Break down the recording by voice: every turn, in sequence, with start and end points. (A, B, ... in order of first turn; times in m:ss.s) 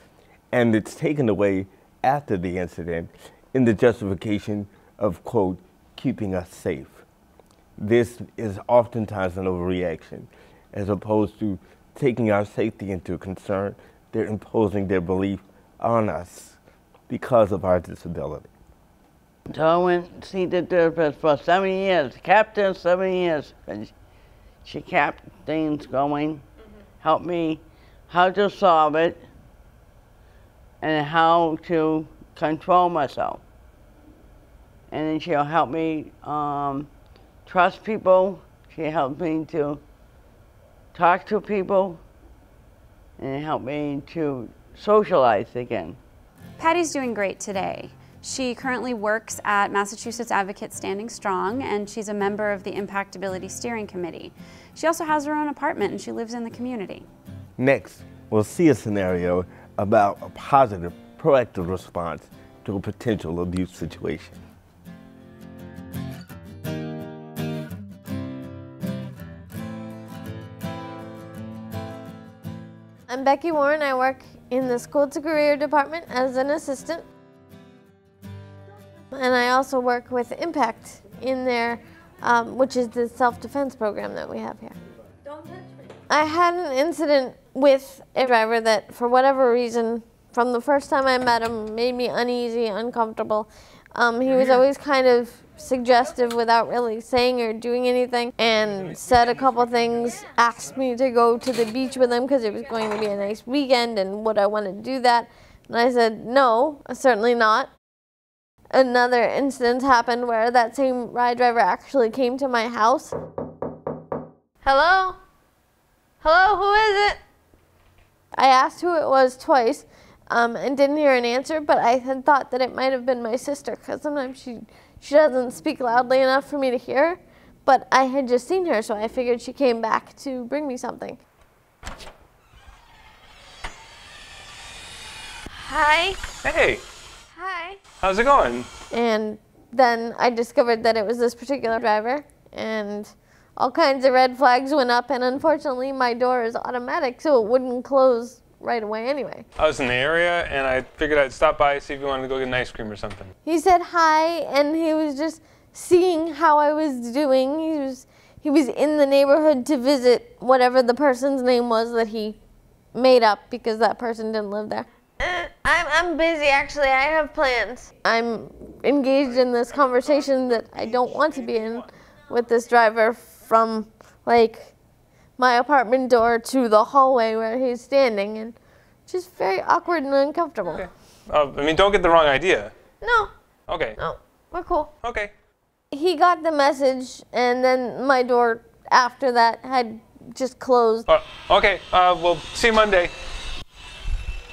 0:00.5-0:07.0 A
0:07.8-0:16.6 A
0:17.1-0:18.5 A
0:19.5-0:23.9 B
0:24.6-0:26.4 B
0:27.0-0:29.2 B
0:30.8-0:33.4 B
0:34.9-0:36.9 B
0:37.5-0:39.8 B
0:40.9-0:42.0 B
0:43.2-0:46.0 B
0:46.6-0:57.1 C
0:57.6-1:04.4 A
1:13.1-1:17.0 D
1:19.1-1:24.8 D
1:26.1-1:47.7 D
1:48.7-1:53.1 D
1:54.6-1:55.2 D
1:56.2-1:57.2 D
1:58.4-2:11.2 D
2:15.6-2:16.2 D
2:16.4-2:16.8 E
2:17.4-2:17.8 D
2:18.0-2:18.7 E
2:18.9-2:29.4 D
2:29.6-2:33.3 E
2:33.4-2:42.4 D
2:42.9-2:54.7 D
2:55.4-2:58.6 D
2:59.1-3:00.8 D
3:00.8-3:02.7 E
3:03.0-3:03.3 D
3:03.7-3:04.0 E
3:04.0-3:04.9 D
3:05.0-3:05.3 E
3:05.9-3:11.1 D
3:11.1-3:13.1 E